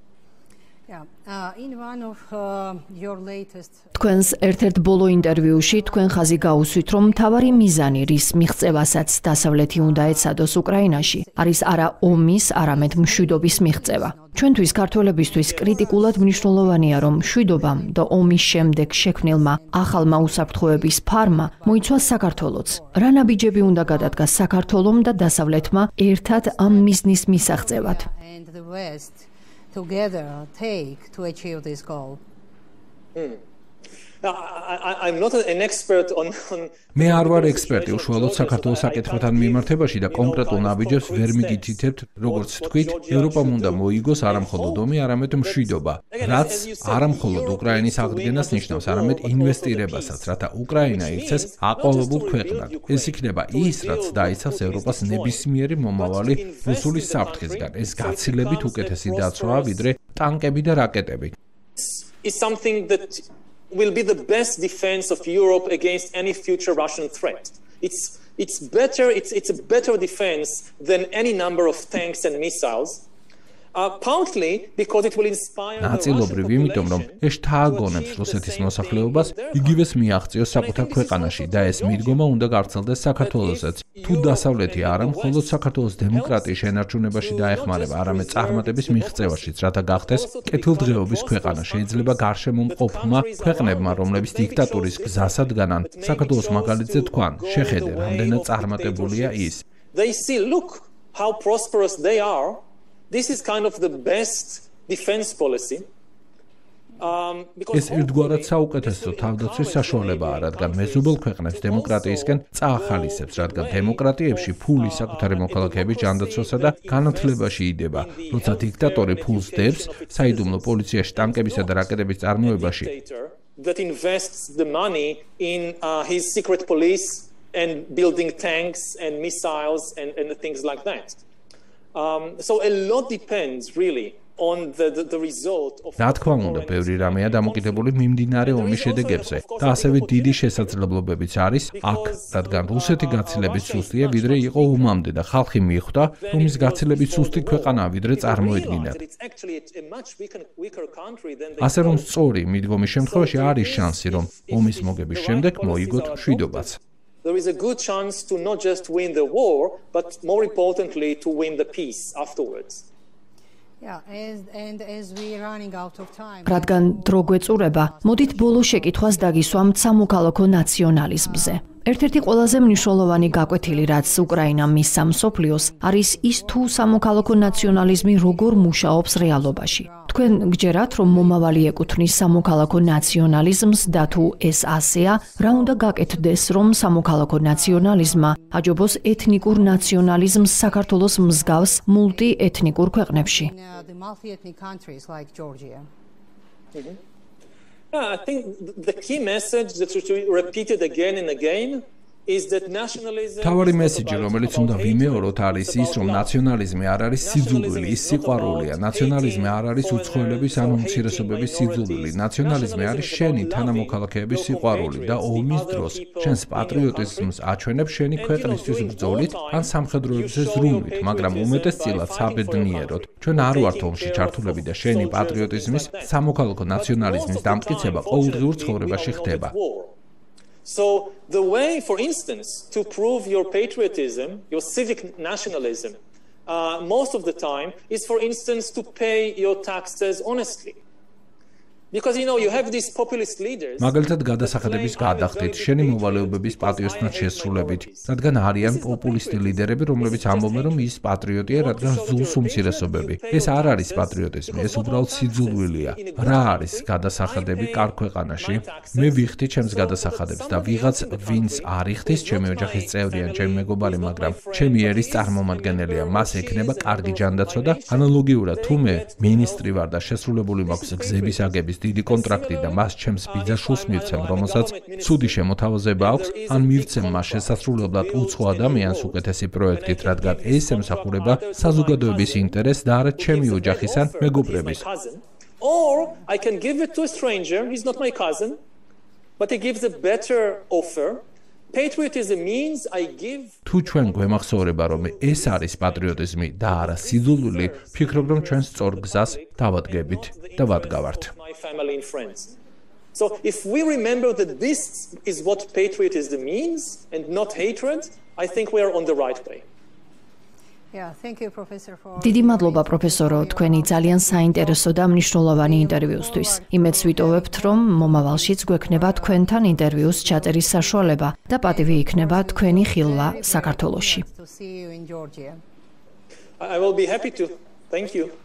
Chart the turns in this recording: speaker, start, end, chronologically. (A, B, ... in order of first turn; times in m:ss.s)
0:00.9-0:32.2 A
0:03.9-0:28.1 B
0:33.1-0:33.4 C
0:34.2-0:44.9 C
0:36.9-1:01.3 D
0:45.4-0:59.9 C
1:01.8-1:13.0 C
1:13.7-1:19.8 C
1:15.8-1:39.6 D
1:20.5-1:22.2 C
1:23.2-1:25.6 C
1:26.1-1:45.9 C
1:47.0-2:11.2 C
1:47.7-2:02.9 D
2:11.9-2:20.8 C
2:16.0-2:29.0 D
2:21.7-2:25.0 C
2:26.2-2:32.1 C
2:31.6-2:36.8 D
2:33.0-2:42.8 C
2:43.8-2:50.1 A
2:46.4-3:13.5 B
2:50.9-3:04.4 A
3:05.1-3:15.9 A
3:17.9-3:26.3 C
3:23.4-3:49.5 D
3:27.2-3:37.3 C
3:38.1-3:46.2 C
3:46.7-3:49.9 C
3:50.6-4:00.8 C
4:01.9-4:10.9 C
4:03.8-4:44.8 D
4:11.5-4:29.8 C
4:30.6-4:31.5 C
4:32.0-4:42.6 C
4:43.2-4:48.6 C
4:49.4-5:02.5 C
4:53.6-5:01.3 D
5:03.1-5:09.6 C
5:10.9-5:25.6 A
5:12.2-5:24.2 B
5:26.6-5:28.3 C